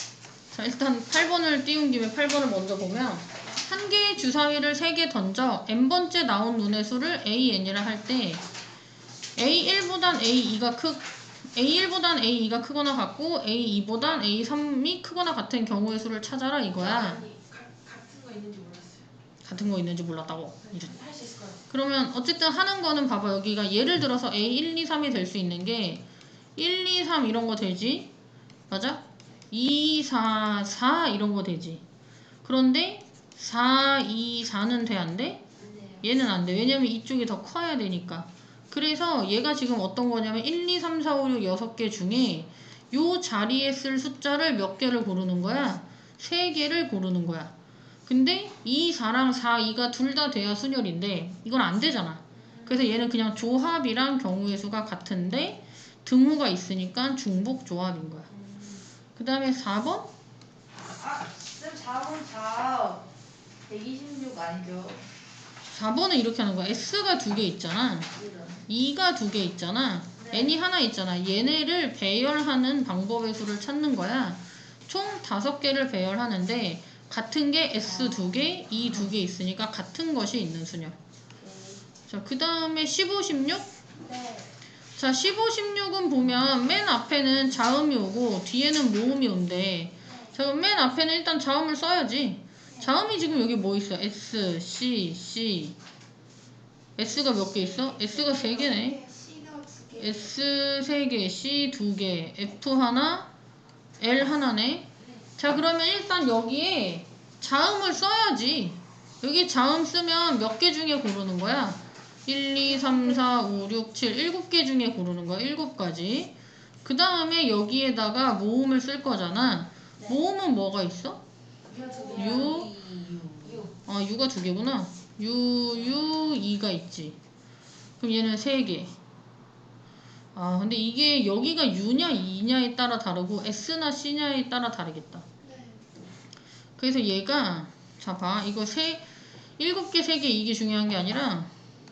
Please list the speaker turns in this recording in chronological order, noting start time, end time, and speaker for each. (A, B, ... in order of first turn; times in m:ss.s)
0:00.5-0:08.4 A
0:09.4-0:17.2 A
0:16.8-0:19.0 B
0:19.4-0:21.0 A
0:20.8-0:21.6 B
0:21.7-0:26.0 A
0:26.6-0:28.1 A
0:28.7-0:31.8 A
0:32.4-0:35.4 A
0:36.0-0:47.5 A
0:48.1-0:58.3 A
0:58.3-0:58.8 B
0:59.2-1:00.1 A
1:01.0-1:03.1 B
1:03.6-1:05.1 B
1:05.7-1:08.1 A
1:08.1-1:08.6 B
1:08.7-1:21.0 A
1:10.2-1:10.5 B
1:21.4-1:21.8 B
1:22.1-1:23.7 A
1:24.0-1:24.5 C
1:25.0-1:35.8 A
1:30.1-1:30.3 C
1:37.0-1:39.0 A
1:37.7-1:40.3 C
1:40.0-1:43.3 A
1:44.0-2:01.2 A
2:01.7-2:03.8 B
2:01.8-2:02.5 C
2:02.1-2:02.7 A
2:03.9-2:07.2 A
2:08.0-2:08.9 A
2:10.4-2:15.3 A
2:15.4-2:15.9 C
2:16.8-2:19.0 A
2:19.6-2:21.5 A